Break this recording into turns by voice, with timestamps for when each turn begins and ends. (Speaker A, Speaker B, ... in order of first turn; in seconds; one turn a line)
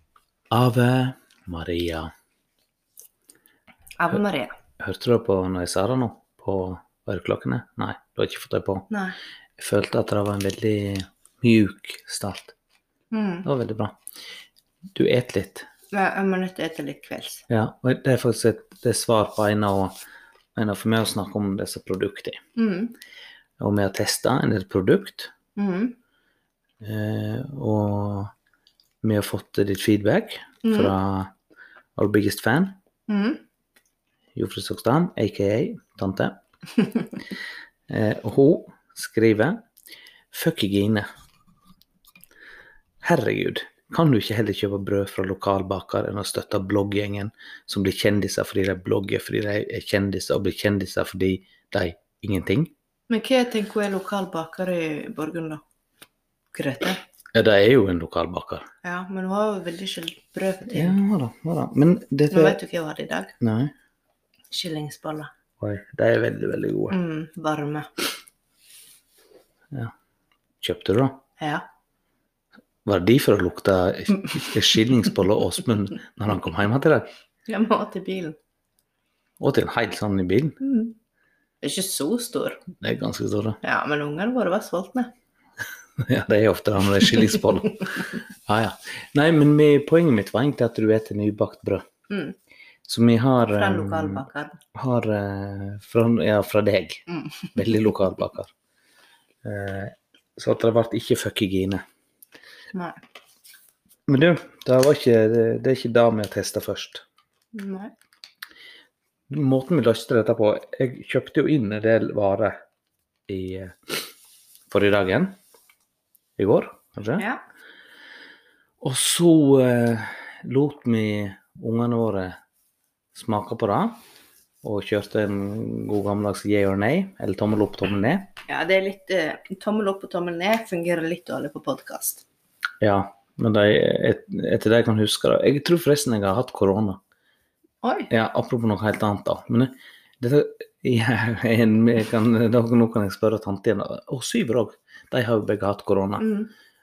Speaker A: 0.5-2.1
Speaker B: 4.0-4.5
Speaker A: 4.8-8.8
Speaker B: 8.9-9.2
Speaker A: 9.6-12.5
Speaker B: 13.1-13.5
Speaker A: 13.4-13.9
Speaker A: 14.9-15.7
Speaker B: 15.9-17.4
Speaker A: 17.5-19.9
Speaker A: 20.5-22.4
Speaker B: 22.6-22.9
Speaker A: 23.6-25.3
Speaker B: 25.6-25.9
Speaker A: 26.8-28.3
Speaker A: 29.0-31.3
Speaker B: 30.6-30.9
Speaker A: 31.9-32.8
Speaker B: 33.1-33.4
Speaker A: 34.3-36.4
Speaker A: 37.9-39.6
Speaker A: 40.3-41.1
Speaker A: 43.0-52.7
Speaker B: 53.1-55.6
Speaker B: 56.5-57.0
Speaker A: 57.3-58.6
Speaker B: 58.8-61.0
Speaker A: 60.7-62.6
Speaker B: 62.3-63.3
Speaker A: 63.4-63.7
Speaker B: 64.5-65.3
Speaker A: 65.6-66.9
Speaker B: 66.9-67.9
Speaker A: 70.6-71.2
Speaker A: 72.8-77.1
Speaker B: 77.5-78.4
Speaker A: 79.4-80.6
Speaker B: 80.6-80.9
Speaker B: 81.6-82.6
Speaker A: 82.8-83.6
Speaker B: 83.6-85.1
Speaker A: 86.0-91.8
Speaker B: 92.1-92.3
Speaker A: 92.9-94.2
Speaker B: 93.5-94.6
Speaker A: 94.7-98.5
Speaker B: 97.1-97.5
Speaker A: 99.4-101.8
Speaker B: 102.7-103.0
Speaker A: 104.1-107.0
Speaker B: 107.5-107.9
Speaker A: 109.3-112.6
Speaker A: 113.3-114.0
Speaker A: 114.7-115.3
Speaker A: 116.4-117.2
Speaker A: 118.8-122.4
Speaker A: 123.1-124.0
Speaker A: 124.6-128.3
Speaker B: 128.5-132.2
Speaker A: 132.8-137.0
Speaker B: 137.8-138.1
Speaker A: 138.1-146.2
Speaker B: 146.2-146.5